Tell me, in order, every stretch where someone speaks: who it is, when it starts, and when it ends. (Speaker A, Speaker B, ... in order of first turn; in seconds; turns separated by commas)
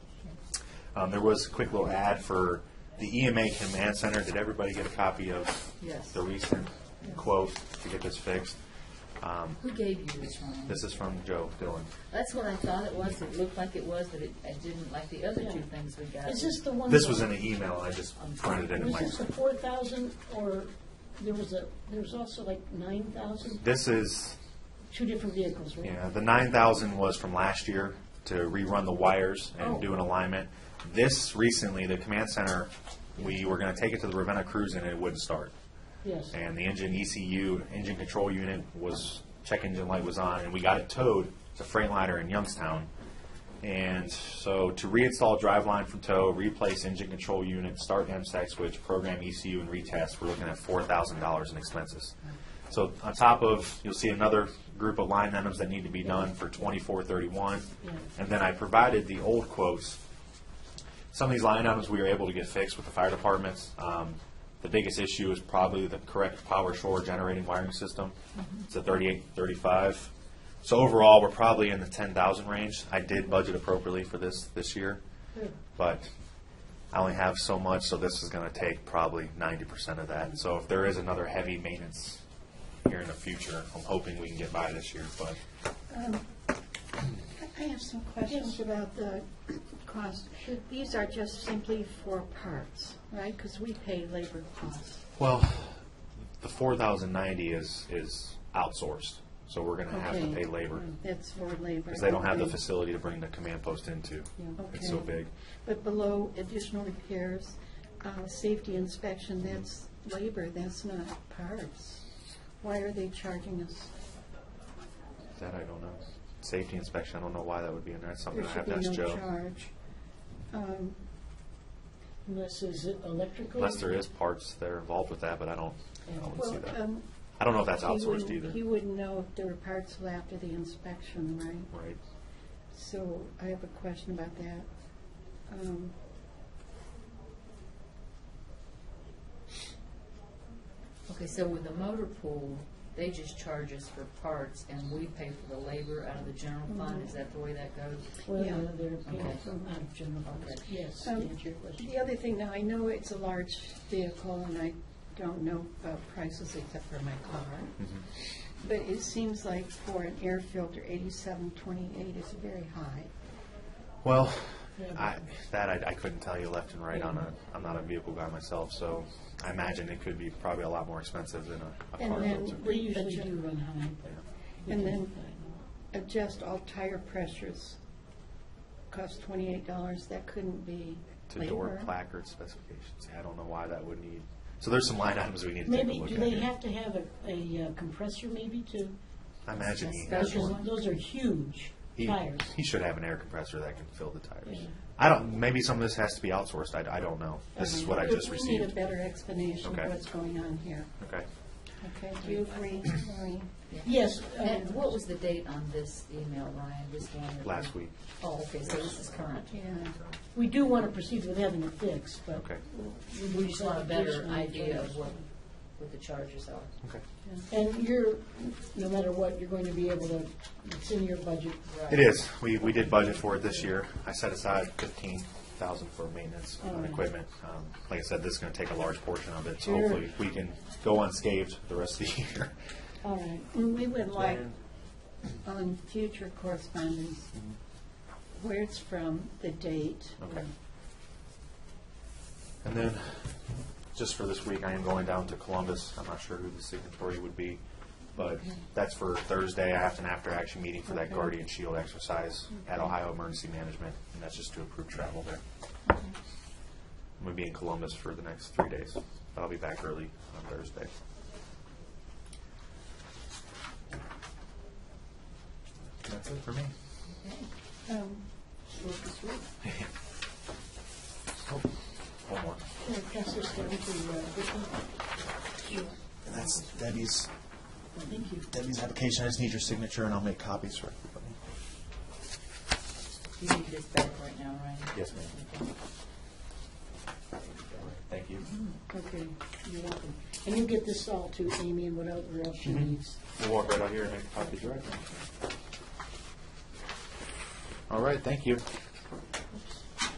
Speaker A: 0.9-8.6, Speaker B: 5.8-6.2, Speaker A: 9.2-9.6, Speaker B: 9.6-10.8, Speaker A: 10.7-11.9, Speaker B: 12.1-16.6, Speaker C: 15.4-15.6, Speaker C: 16.2-17.4, Speaker A: 16.9-19.2, Speaker B: 18.1-19.0, Speaker C: 18.7-23.6, Speaker A: 23.6-24.4, Speaker C: 24.9-25.9, Speaker A: 25.8-35.5, Speaker C: 29.6-29.9, Speaker C: 36.0-36.4, Speaker A: 36.3-42.9, Speaker A: 43.6-52.1, Speaker A: 52.7-60.0, Speaker C: 56.0-56.3, Speaker C: 57.8-58.1, Speaker A: 61.1-68.2, Speaker A: 68.7-75.0, Speaker A: 75.8-76.1, Speaker A: 76.9-82.2, Speaker A: 82.8-85.4, Speaker D: 85.9-86.3, Speaker D: 87.3-95.0, Speaker C: 88.3-88.6, Speaker A: 95.2-95.8, Speaker A: 96.4-100.9, Speaker D: 99.9-102.6, Speaker A: 101.9-105.3, Speaker D: 104.5-112.0, Speaker D: 112.6-113.9, Speaker A: 115.4-119.2, Speaker D: 118.3-119.7, Speaker D: 120.5-121.0, Speaker C: 122.2-124.0, Speaker A: 123.5-128.6, Speaker C: 126.1-126.4, Speaker D: 126.3-127.1, Speaker D: 127.7-131.7, Speaker A: 131.7-132.0, Speaker D: 132.7-134.7, Speaker D: 135.5-135.9, Speaker B: 141.1-148.2, Speaker D: 146.7-147.1, Speaker C: 148.2-151.9, Speaker D: 148.4-148.7, Speaker B: 149.1-149.4, Speaker B: 150.2-150.7, Speaker D: 151.0-163.1, Speaker A: 164.0-172.6, Speaker C: 164.8-165.1, Speaker C: 166.9-167.3, Speaker D: 172.0-173.6, Speaker C: 172.1-174.1, Speaker C: 174.6-175.6, Speaker D: 174.7-175.2, Speaker D: 175.9-177.8, Speaker D: 178.9-181.9, Speaker A: 181.3-186.5, Speaker C: 185.7-189.0, Speaker A: 189.5-190.6, Speaker B: 189.6-190.7, Speaker C: 190.1-192.6, Speaker A: 191.9-198.8, Speaker C: 194.4-194.8, Speaker D: 197.6-200.9, Speaker A: 199.6-199.9, Speaker A: 201.0-201.3, Speaker D: 201.8-203.5, Speaker B: 202.2-202.9, Speaker B: 203.7-209.6, Speaker C: 203.8-204.9, Speaker A: 207.4-208.0, Speaker A: 208.6-209.3, Speaker D: 209.5-209.9, Speaker C: 210.3-215.2, Speaker A: 212.3-212.6, Speaker B: 213.3-216.7, Speaker C: 217.5-221.6, Speaker B: 221.7-222.2, Speaker A: 221.9-232.5, Speaker C: 226.6-227.1, Speaker C: 229.6-230.1, Speaker C: 233.0-233.5, Speaker D: 233.5-234.5, Speaker A: 234.1-234.6, Speaker D: 235.4-237.3, Speaker D: 238.3-240.2, Speaker A: 240.2-240.5, Speaker A: 242.6-243.3, Speaker A: 243.9-247.6, Speaker A: 248.2-255.4, Speaker A: 257.2-260.9, Speaker A: 266.0-266.7, Speaker B: 267.2-267.5, Speaker D: 267.9-268.3, Speaker C: 268.7-269.5, Speaker A: 272.3-272.6, Speaker C: 272.8-275.0, Speaker C: 275.6-276.0, Speaker A: 276.2-277.3, Speaker C: 278.1-278.5, Speaker A: 278.5-281.4, Speaker B: 283.4-285.7, Speaker A: 284.9-285.3, Speaker B: 287.4-287.9, Speaker A: 287.8-288.5, Speaker C: 288.9-293.2, Speaker A: 292.6-295.0, Speaker A: 297.9-298.6